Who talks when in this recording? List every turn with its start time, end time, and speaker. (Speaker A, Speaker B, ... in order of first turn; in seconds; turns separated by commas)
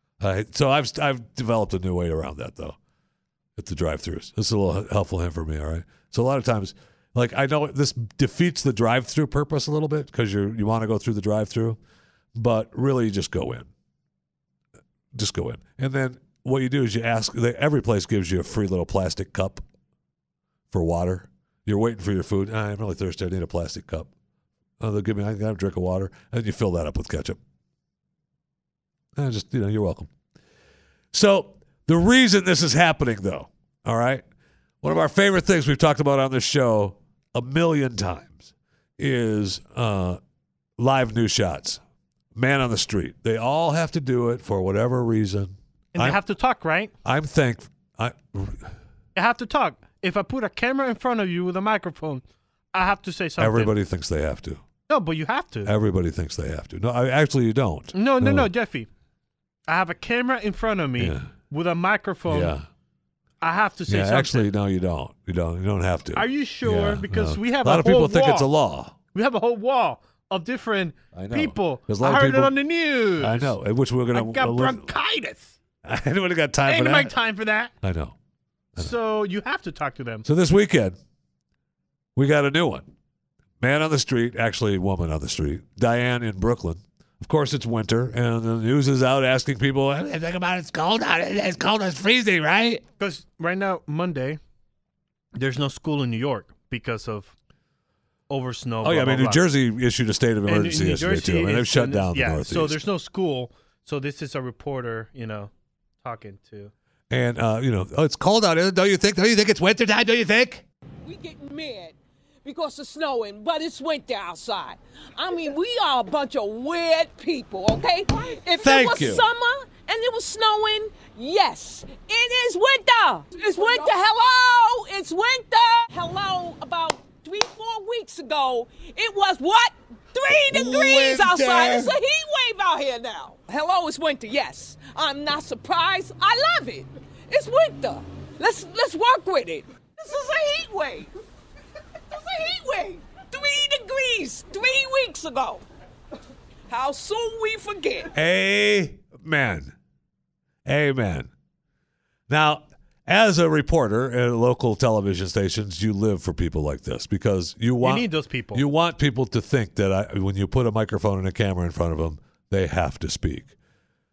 Speaker A: 0.2-2.8, Speaker A: 3.6-11.8, Speaker A: 12.3-13.7, Speaker A: 15.1-19.6, Speaker A: 20.7-24.1, Speaker A: 24.8-27.4, Speaker A: 29.2-30.1, Speaker A: 31.1-34.2, Speaker A: 34.8-40.2, Speaker A: 40.8-41.8, Speaker A: 42.4-46.2, Speaker B: 45.9-46.9, Speaker A: 47.0-48.7, Speaker B: 49.1-53.7, Speaker A: 53.4-54.6, Speaker B: 54.9-55.7, Speaker A: 55.6-58.5, Speaker B: 57.9-58.9, Speaker B: 59.7-62.5, Speaker A: 61.0-61.3, Speaker A: 62.3-62.6, Speaker B: 63.4-64.5, Speaker A: 63.9-69.0, Speaker B: 66.1-68.5, Speaker B: 69.1-73.5, Speaker A: 71.1-72.5, Speaker A: 73.2-74.9, Speaker B: 74.1-75.6, Speaker A: 75.8-77.1, Speaker B: 76.7-77.7, Speaker A: 77.8-78.2, Speaker B: 78.8-80.2, Speaker A: 80.2-81.0, Speaker A: 82.2-82.9, Speaker A: 83.6-92.8, Speaker B: 93.0-94.4, Speaker B: 95.3-97.3, Speaker B: 98.3-99.4, Speaker A: 98.8-102.8, Speaker B: 100.5-105.5, Speaker B: 106.0-106.7, Speaker A: 107.1-110.6, Speaker C: 111.0-141.1, Speaker A: 118.6-119.2, Speaker A: 130.3-132.0, Speaker C: 142.1-145.6, Speaker C: 146.7-148.1, Speaker A: 148.1-149.7, Speaker A: 150.7-151.3, Speaker A: 152.3-163.6, Speaker B: 157.8-158.6